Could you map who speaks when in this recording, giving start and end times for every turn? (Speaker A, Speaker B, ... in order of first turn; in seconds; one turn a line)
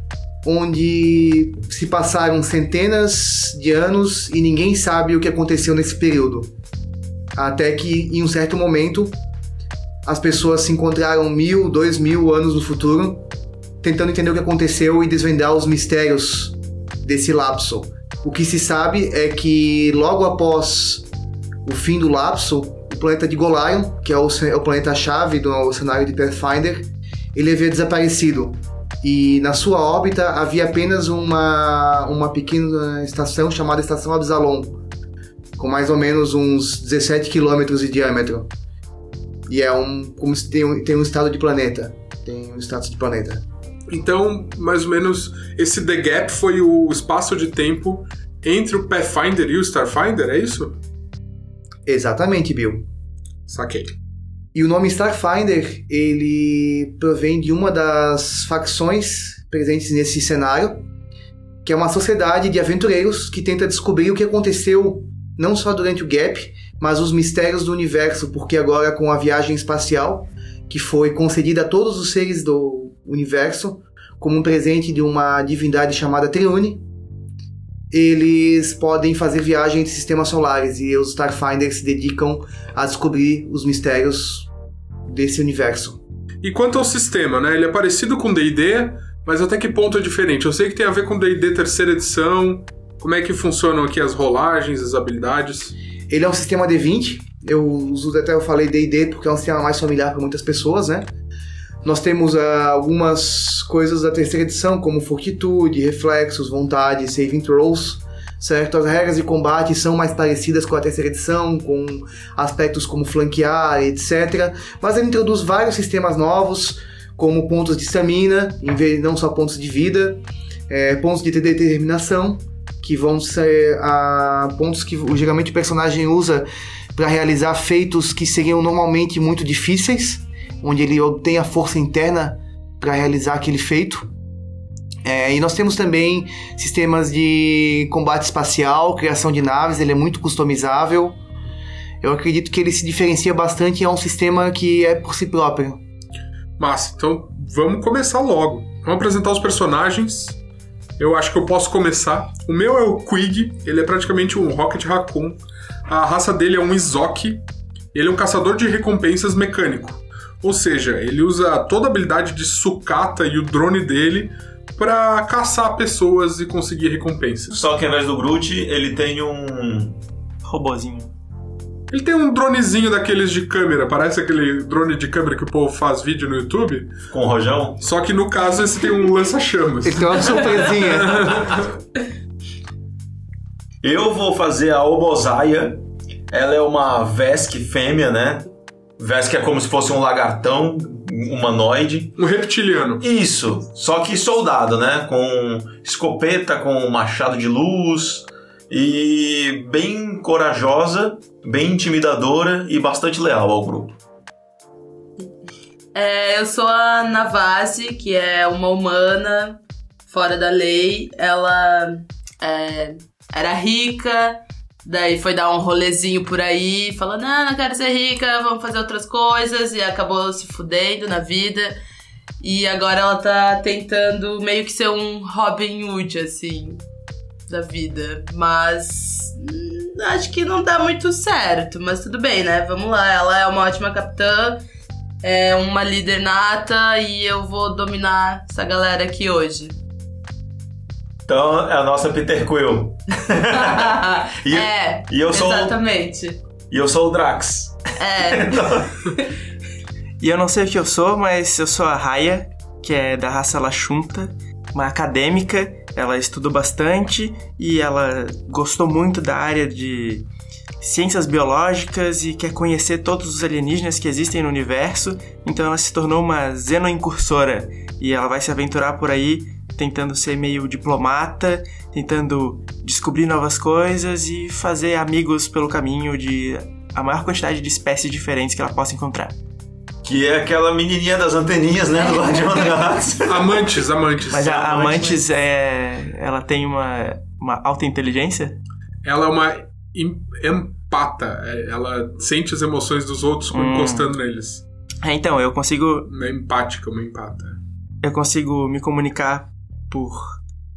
Speaker A: 0.4-6.5
Speaker A: 7.3-9.2
Speaker A: 10.0-13.2
Speaker A: 13.8-21.1
Speaker A: 21.6-34.8
Speaker A: 35.6-38.5
Speaker A: 39.5-43.4
Speaker B: 43.9-50.8
Speaker A: 51.9-52.9
Speaker B: 53.5-53.9
Speaker A: 54.5-60.8
Speaker A: 61.6-76.8
Speaker A: 77.9-84.5
Speaker A: 85.0-86.0
Speaker B: 86.4-95.7
Speaker A: 96.1-101.1
Speaker A: 101.8-134.1
Speaker A: 135.0-141.2
Speaker A: 142.0-145.8
Speaker B: 146.6-150.4
Speaker B: 151.0-157.4
Speaker B: 157.9-167.5
Speaker C: 167.5-170.0
Speaker D: 170.4-171.1
Speaker B: 171.9-176.9
Speaker C: 177.1-177.8
Speaker B: 177.8-181.7
Speaker A: 179.8-181.5
Speaker C: 183.8-188.4
Speaker C: 189.0-192.2
Speaker B: 192.2-193.0
Speaker C: 193.0-204.0
Speaker E: 205.9-221.8
Speaker E: 222.4-226.8
Speaker E: 227.5-234.6
Speaker E: 235.2-239.8
Speaker C: 241.3-245.8
Speaker E: 243.5-246.4
Speaker C: 246.7-249.1
Speaker E: 248.0-249.2
Speaker D: 250.2-260.2
Speaker D: 260.8-279.3
Speaker C: 280.0-283.7
Speaker B: 283.2-285.2
Speaker D: 284.3-288.6
Speaker B: 289.0-294.6
Speaker D: 293.5-294.1
Speaker D: 295.0-296.1
Speaker B: 296.1-297.6
Speaker D: 298.0-300.4